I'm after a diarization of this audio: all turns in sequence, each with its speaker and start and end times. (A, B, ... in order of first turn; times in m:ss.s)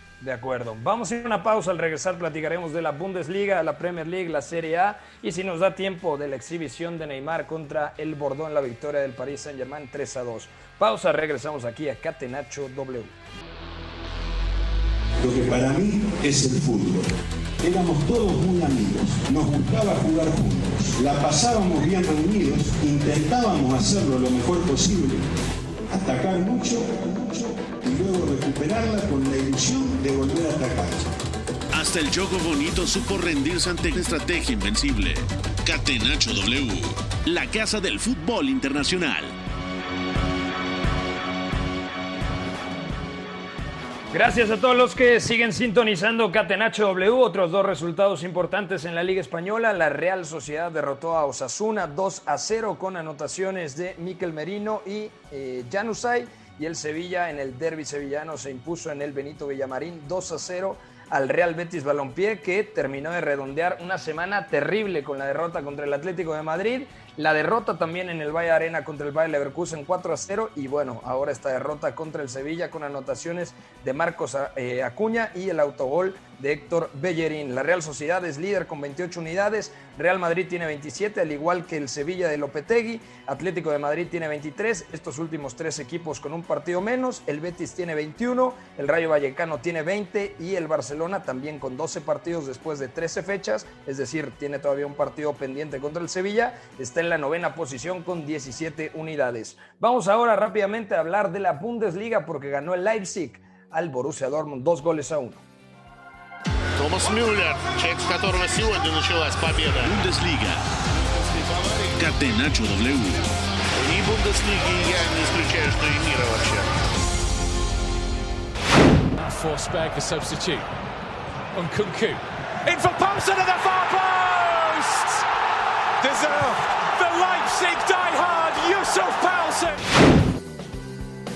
0:00.2-0:13.1 A
0:15.2-0:17.1 B
0:17.6-0:25.3 B
0:25.9-0:31.1 B
0:31.7-0:39.4 C
0:44.1-1:45.4 A
1:46.8-1:50.0 D
1:49.8-1:50.6 C
1:52.0-1:53.2 C
1:53.7-1:56.7 D
1:59.2-2:00.6 E
2:01.5-2:05.2 E
2:06.0-2:09.8 E